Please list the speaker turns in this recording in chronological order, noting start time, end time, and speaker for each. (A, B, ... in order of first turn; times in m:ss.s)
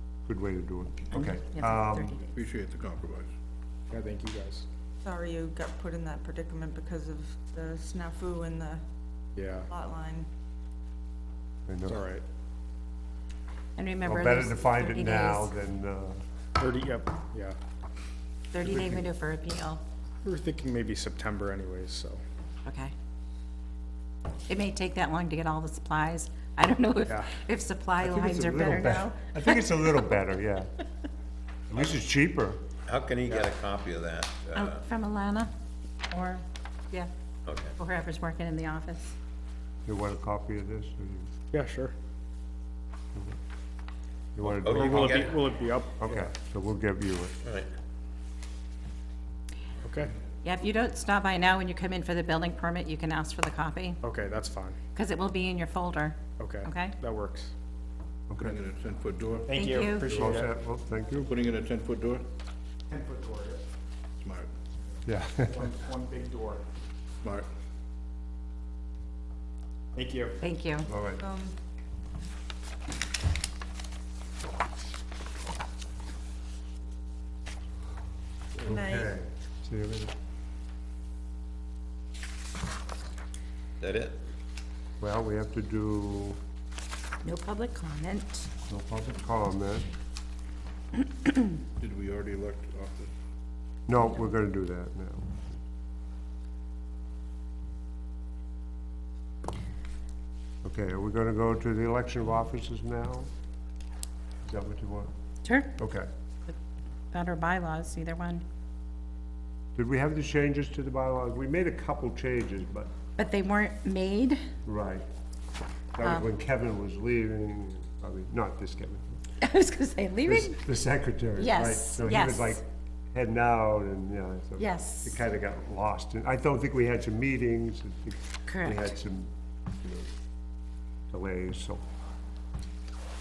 0:00.3-0:02.2 A
0:01.2-0:02.4 B
0:02.3-0:03.3 C
0:03.9-0:04.7 D
0:05.0-0:08.8 E
0:09.4-0:09.7 D
0:09.7-0:10.3 E
0:11.7-0:12.0 A
0:11.9-0:12.2 D
0:13.8-0:15.5 B
0:14.0-0:16.2 A
0:16.6-0:17.6 D
0:18.5-0:19.8 B
0:18.6-0:19.0 A
0:20.2-0:22.2 D
0:22.6-0:22.9 B
0:24.5-0:29.3 B
0:27.1-0:27.3 D
0:28.0-0:30.7 A
0:31.7-0:32.6 A
0:32.9-0:34.8 F
0:34.5-0:35.5 B
0:36.1-0:37.1 B
0:37.5-0:37.8 F
0:37.8-0:39.2 B
0:39.9-0:41.3 A
0:41.5-0:41.9 D
0:44.4-0:45.3 A
0:44.6-0:45.4 F
0:44.6-0:46.3 D
0:46.0-0:47.4 A
0:47.4-0:47.7 F
0:49.8-0:50.1 D
0:50.4-0:54.0 B
0:54.0-0:54.8 D
0:55.0-0:57.0 B
0:56.4-0:57.5 D
0:58.3-0:58.6 A
0:58.4-0:59.5 C
0:59.5-1:00.5 D
0:59.5-1:00.3 B
1:00.1-1:01.4 A
1:01.2-1:02.2 C
1:02.9-1:03.6 D
1:04.2-1:04.5 C
1:05.0-1:05.7 A
1:05.5-1:06.6 D
1:07.2-1:07.5 C
1:10.0-1:10.4 D
1:10.4-1:10.9 B
1:10.8-1:11.2 A
1:11.2-1:11.5 E
1:18.6-1:20.1 A
1:18.7-1:19.1 E
1:23.8-1:24.2 F
1:25.0-1:26.4 A
1:27.2-1:28.5 B
1:28.7-1:29.9 A
1:31.8-1:33.1 C
1:33.9-1:35.6 A
1:40.6-1:43.3 A
1:44.4-1:45.1 A
1:45.4-1:45.7 B
1:45.8-1:46.1 A
1:47.1-1:48.4 B
1:49.8-1:52.9 A
1:53.2-1:54.4 B
1:54.6-1:55.0 A
1:55.9-1:59.2 A
1:59.4-2:00.6 B
2:00.3-2:10.1 A
2:01.4-2:02.6 B
2:04.6-2:05.2 B
2:08.5-2:08.9 B
2:11.1-2:11.8 A